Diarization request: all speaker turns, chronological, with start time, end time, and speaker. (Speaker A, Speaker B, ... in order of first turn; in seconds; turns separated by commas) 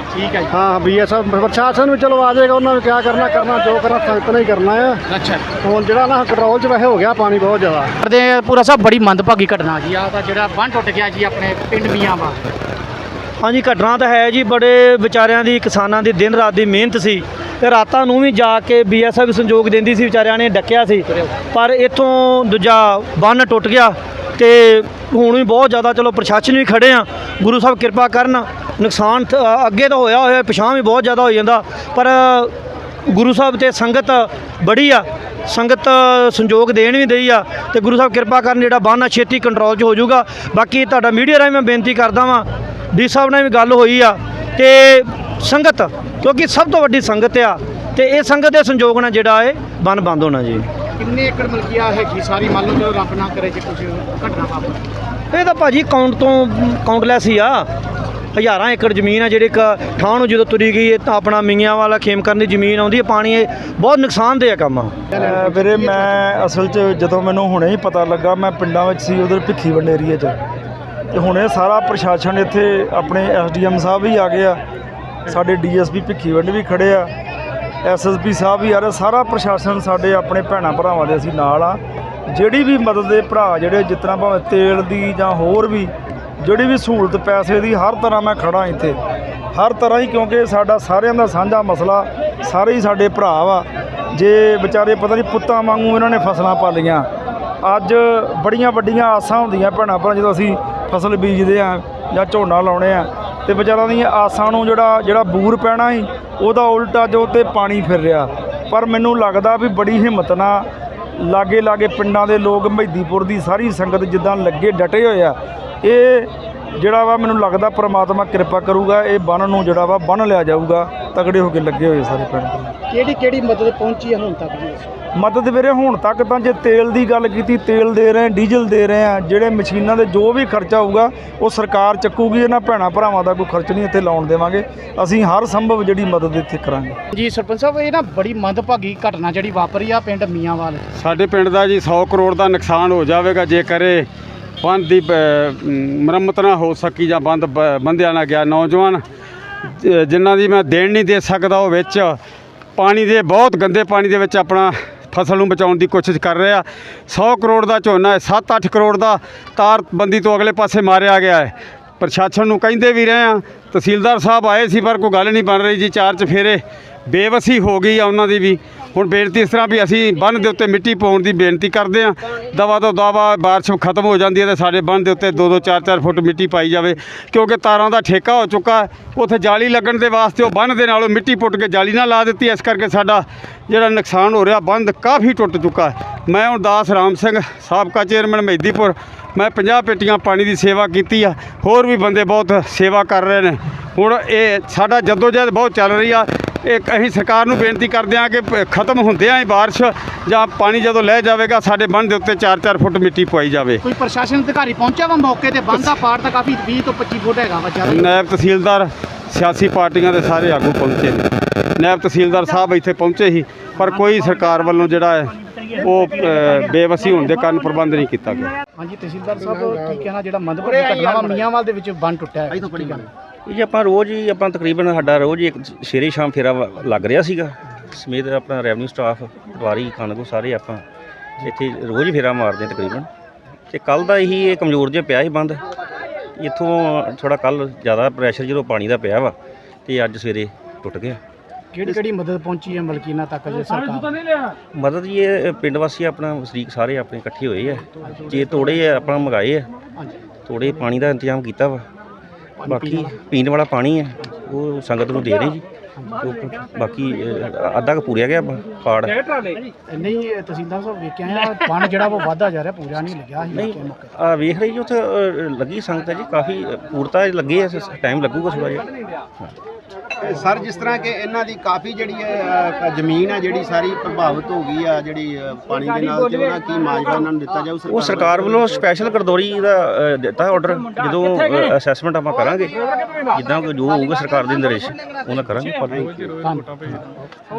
Speaker A: 0.1-0.5, Speaker B: 0.5-5.0, Speaker A: 5.1-5.5, Speaker B: 5.6-7.9, Speaker A: 8.0-12.5, Speaker C: 13.4-32.5, Speaker C: 33.0-50.7, Speaker A: 51.0-54.9, Speaker C: 55.3-57.7, Speaker C: 58.3-65.0, Speaker A: 65.1-66.2, Speaker D: 65.2-70.3, Speaker D: 71.1-74.6, Speaker D: 75.3-77.1, Speaker D: 77.8-89.0, Speaker D: 89.5-97.0, Speaker D: 97.6-122.7, Speaker A: 122.9-124.9, Speaker D: 125.2-137.0, Speaker A: 137.1-140.8, Speaker E: 141.0-144.1, Speaker E: 144.6-149.0, Speaker E: 149.8-152.2, Speaker E: 152.8-203.8, Speaker A: 203.8-208.2, Speaker E: 207.9-218.6, Speaker A: 218.8-223.1, Speaker B: 219.5-220.0, Speaker F: 220.7-221.4, Speaker F: 222.5-223.0, Speaker G: 223.4-230.8, Speaker G: 231.4-233.1, Speaker G: 233.7-235.6, Speaker G: 236.3-239.3, Speaker G: 239.8-241.2, Speaker A: 241.7-244.1, Speaker G: 244.7-249.7, Speaker G: 250.5-251.8, Speaker A: 252.6-253.2, Speaker G: 252.6-255.6, Speaker G: 256.2-259.2, Speaker A: 259.9-264.0, Speaker G: 263.5-268.9, Speaker F: 270.2-278.6, Speaker G: 277.8-282.8, Speaker G: 283.3-286.3, Speaker A: 286.4-287.2